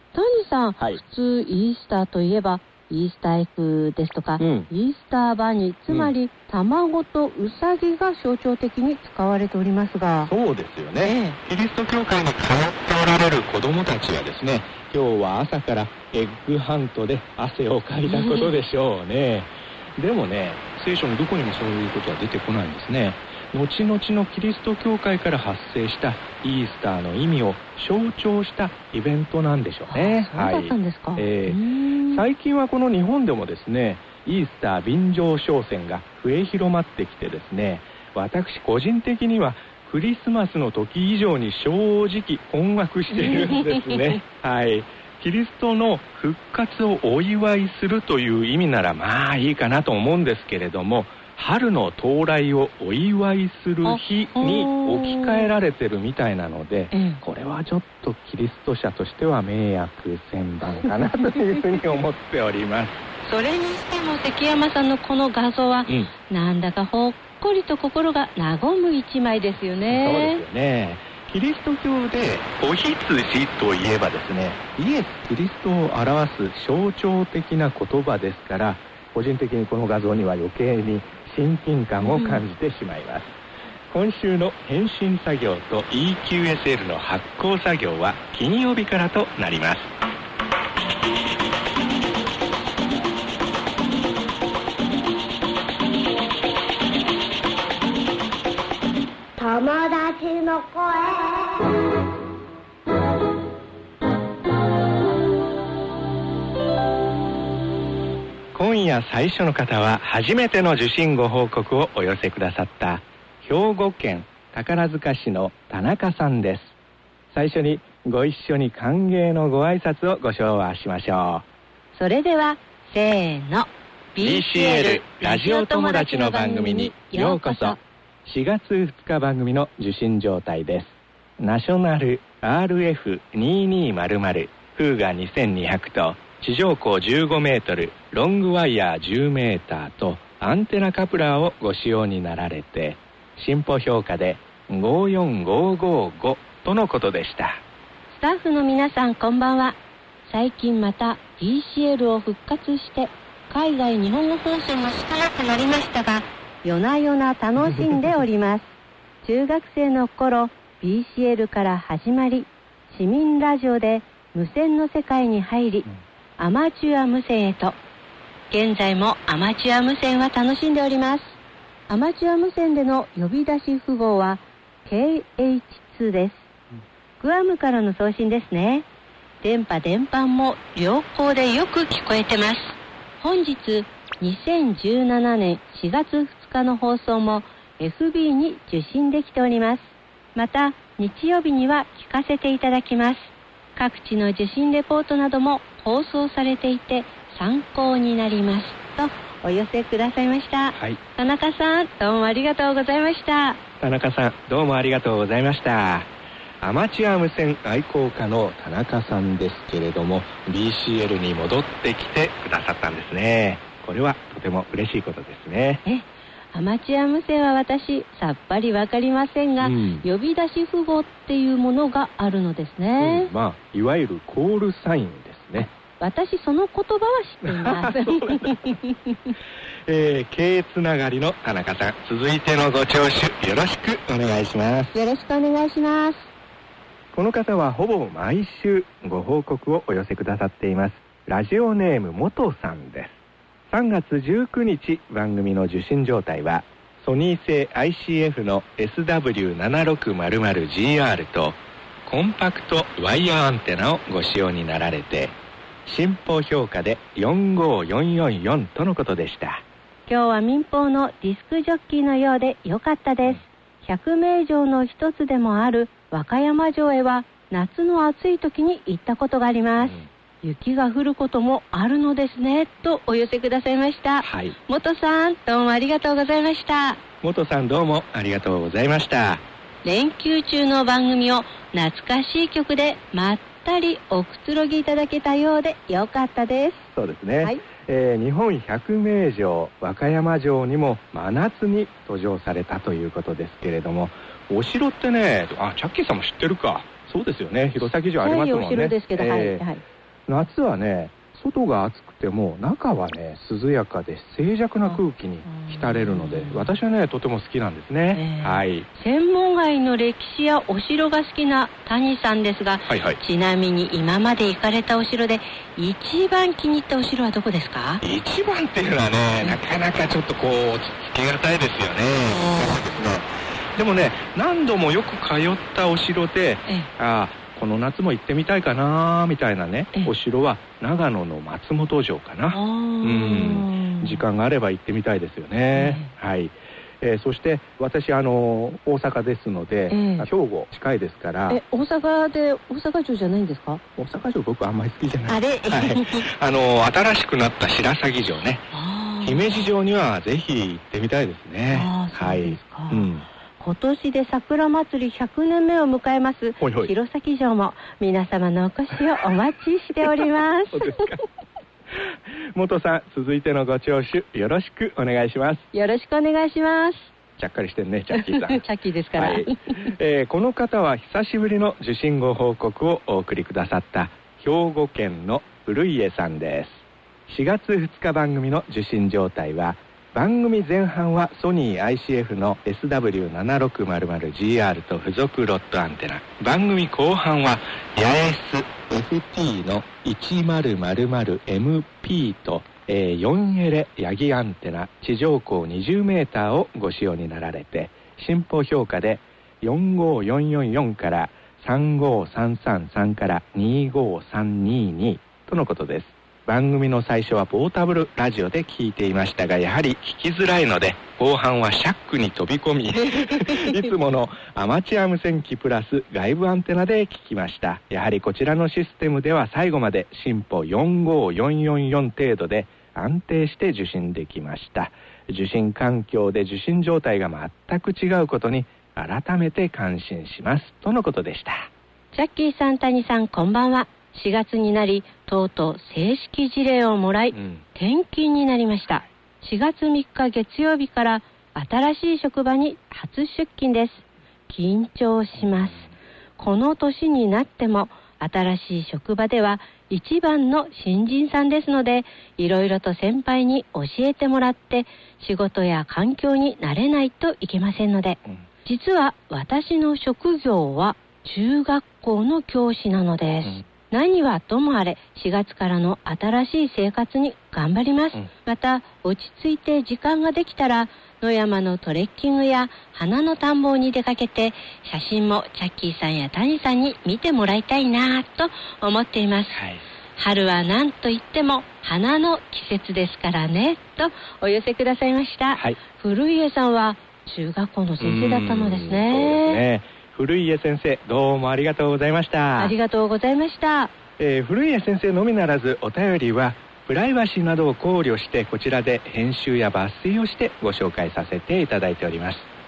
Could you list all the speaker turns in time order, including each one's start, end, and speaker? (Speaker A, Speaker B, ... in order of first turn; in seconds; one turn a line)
Speaker A: 0.1-10.3
Speaker B: 4.4-4.7
Speaker B: 10.2-63.0
Speaker A: 11.0-11.4
Speaker A: 18.1-18.5
Speaker A: 29.9-32.2
Speaker A: 43.2-43.8
Speaker A: 53.8-55.5
Speaker A: 56.9-57.2
Speaker A: 63.2-70.4
Speaker B: 65.9-66.1
Speaker B: 69.9-83.4
Speaker A: 82.0-82.4
Speaker B: 83.9-89.9
Speaker C: 99.4-101.6
Speaker B: 108.5-116.7
Speaker B: 117.3-121.4
Speaker A: 121.9-127.8
Speaker B: 124.2-147.6
Speaker A: 148.1-167.8
Speaker A: 168.5-176.5
Speaker A: 177.2-178.8
Speaker A: 179.4-203.6
Speaker B: 200.7-201.0
Speaker B: 203.8-215.8
Speaker A: 215.8-223.3
Speaker B: 219.6-220.0
Speaker B: 223.0-225.7
Speaker A: 225.6-229.3
Speaker B: 227.4-228.6
Speaker B: 229.8-234.9
Speaker A: 234.9-236.3
Speaker B: 237.1-243.2
Speaker B: 243.7-259.6
Speaker A: 260.1-277.0
Speaker B: 269.8-270.1
Speaker B: 274.2-274.6
Speaker B: 277.2-279.4
Speaker A: 279.8-286.9
Speaker B: 286.9-299.6
Speaker A: 298.2-299.8
Speaker B: 300.3-308.9
Speaker A: 304.9-306.7
Speaker A: 308.1-318.0
Speaker B: 312.9-313.2
Speaker B: 318.0-341.6
Speaker A: 332.5-334.2
Speaker A: 335.7-336.1
Speaker A: 339.9-340.3
Speaker A: 341.5-343.8
Speaker B: 344.0-348.7
Speaker A: 345.3-346.2
Speaker A: 348.7-349.4
Speaker B: 349.2-353.2
Speaker A: 351.7-361.0
Speaker B: 356.6-356.9
Speaker B: 360.7-361.2
Speaker B: 361.9-365.6
Speaker A: 365.7-367.1
Speaker B: 367.4-368.6
Speaker A: 368.2-369.9
Speaker B: 369.2-431.7
Speaker A: 432.1-479.6
Speaker B: 437.3-437.6
Speaker B: 479.5-479.8
Speaker A: 480.2-489.6
Speaker B: 488.0-492.7
Speaker A: 492.6-493.9
Speaker B: 494.2-502.5